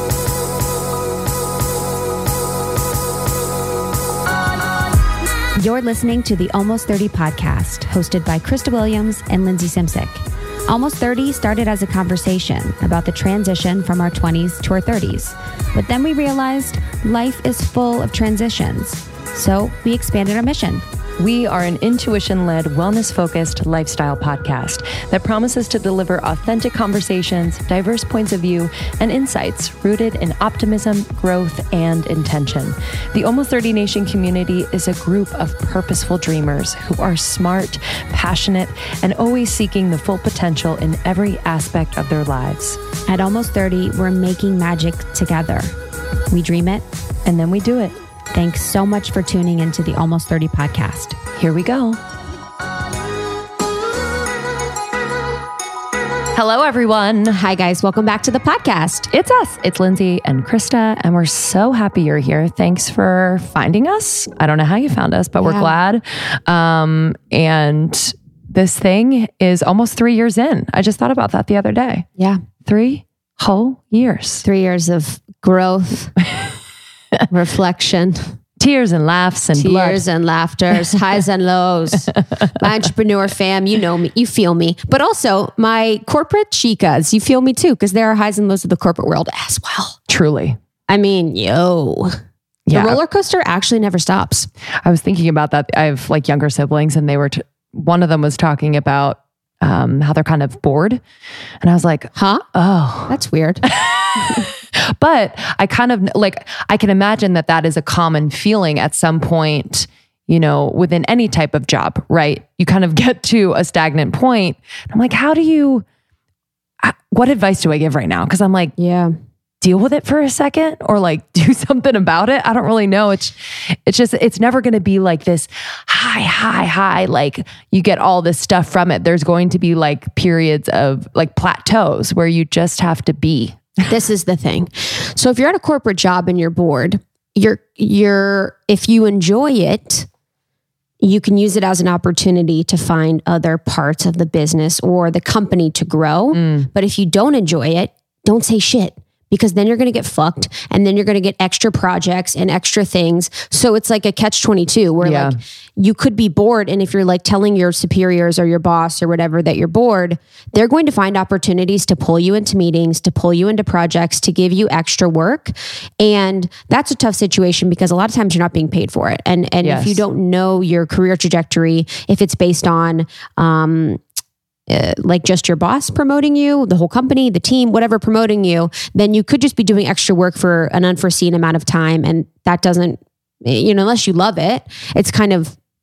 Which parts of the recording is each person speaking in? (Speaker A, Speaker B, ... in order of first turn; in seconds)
Speaker A: 5.5-20.8, 43.0-45.7, 46.3-46.9, 48.3-51.2, 57.3-59.1, 65.4-65.7, 74.4-76.1, 77.3-78.4, 79.5-90.0, 90.9-92.2, 92.7-94.5, 102.1-102.5, 103.1-104.5, 118.8-119.1, 133.9-140.1, 141.0-174.0, 174.7-185.6
Speaker B: 21.2-42.8, 47.2-48.0, 51.4-52.0, 56.3-57.4, 59.1-72.0, 72.7-74.4, 76.2-76.6, 78.6-80.0, 80.7-81.0, 82.4-82.7, 90.1-90.6, 92.7-93.0, 94.8-101.0, 101.6-103.2, 103.7-115.8, 116.8-118.7, 119.6-123.3, 123.8-133.7, 146.3-146.7, 155.0-155.4, 169.6-170.0